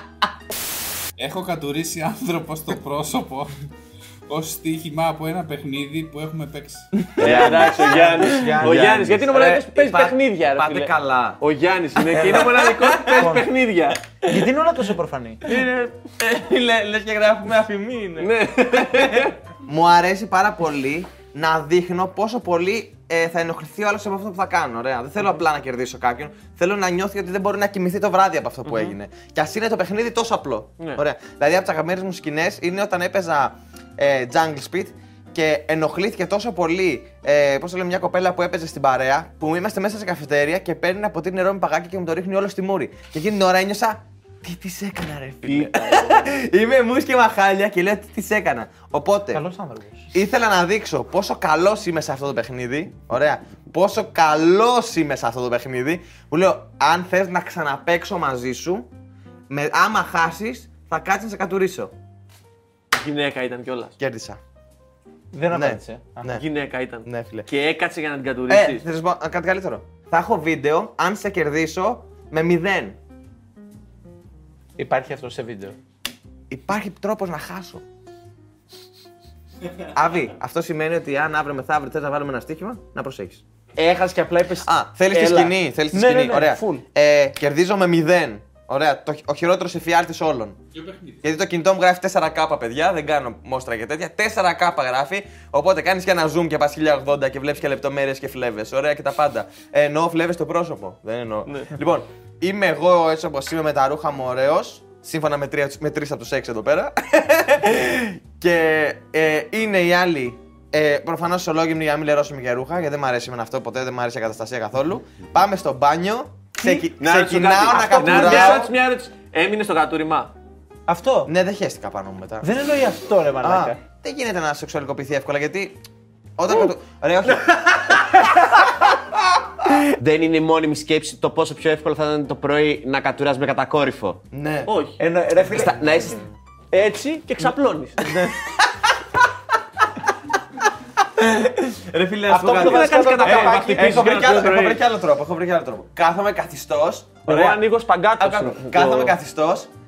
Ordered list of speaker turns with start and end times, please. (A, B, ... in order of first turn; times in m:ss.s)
0:01.2-0:03.5 A
0:04.3-0:06.9 A
0:07.0-0:11.4 B
0:07.2-0:14.3 C
0:07.2-0:07.7 D
0:08.1-0:08.8 E
0:08.6-0:09.0 D
0:12.0-0:13.4 B
0:13.1-0:13.5 E
0:14.2-0:15.4 E
0:15.4-0:16.0 C
0:16.2-0:49.4 B
0:18.2-0:19.4 C
0:28.7-0:28.9 C
0:45.4-0:45.8 D
0:45.6-0:45.9 C
0:49.3-0:50.1 E
0:50.1-0:58.9 B
0:59.5-1:01.9 B
1:02.9-1:04.0 C
1:04.0-1:04.4 B
1:05.3-1:06.3 E
1:05.5-1:06.4 B
1:06.3-1:08.8 C
1:07.1-1:07.5 B
1:08.5-1:13.0 B
1:14.8-1:15.8 E
1:16.5-1:17.8 B
1:19.9-1:23.4 B
1:23.8-1:26.8 E
1:24.6-1:30.6 B
1:30.7-1:31.3 A
1:31.2-1:58.7 B
1:56.6-1:56.9 E
1:57.0-2:00.3 C
1:58.0-1:58.5 E
2:00.9-2:01.3 E
2:01.3-2:02.5 B
2:02.4-2:03.8 E
2:03.4-2:05.8 B
2:06.4-2:08.7 B
2:10.0-2:14.2 D
2:14.3-2:14.7 B
2:14.7-2:15.0 C
2:15.0-2:15.8 E
2:15.5-2:16.2 D
2:16.7-2:18.1 C
2:18.0-2:18.9 B
2:21.0-2:27.6 B
2:22.3-2:24.1 E
2:22.5-2:24.8 C
2:27.3-2:29.2 C
2:28.2-2:29.7 B